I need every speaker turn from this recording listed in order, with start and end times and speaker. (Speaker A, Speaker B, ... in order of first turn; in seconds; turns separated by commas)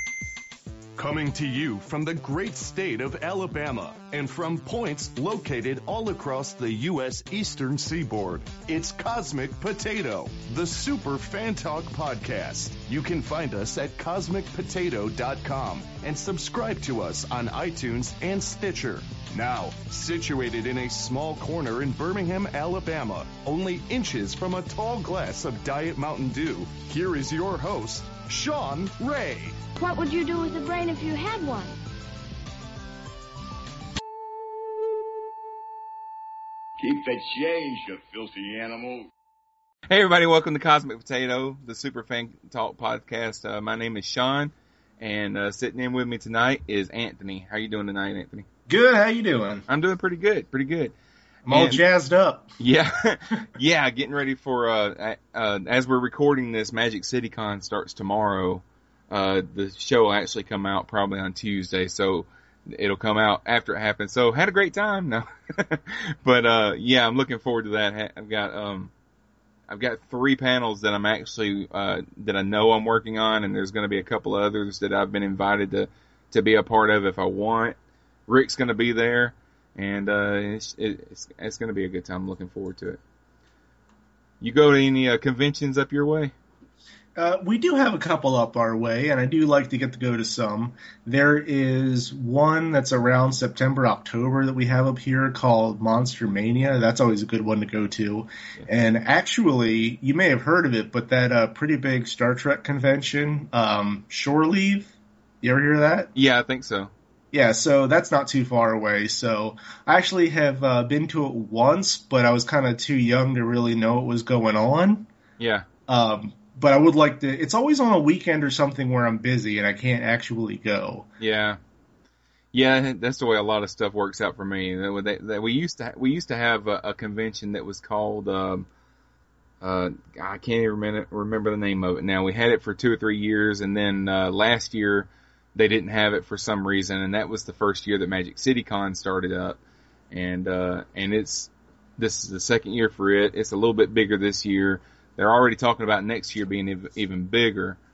Speaker A: 1.0-29.6, Speaker B: 29.8-31.8, Speaker C: 36.8-39.1, Speaker D: 39.9-48.5, Speaker E: 48.7-49.6, Speaker D: 49.7-50.9, Speaker E: 51.5-52.5, Speaker D: 51.5-51.8, Speaker D: 52.6-68.9, Speaker D: 69.7-77.8, Speaker D: 78.3-83.0, Speaker D: 84.4-86.3, Speaker E: 87.2-106.1, Speaker D: 106.2-106.9, Speaker E: 107.3-115.1, Speaker D: 115.4-115.7, Speaker E: 115.9-121.1, Speaker D: 121.2-121.6, Speaker D: 122.5-128.7, Speaker D: 129.6-139.6, Speaker D: 140.1-147.8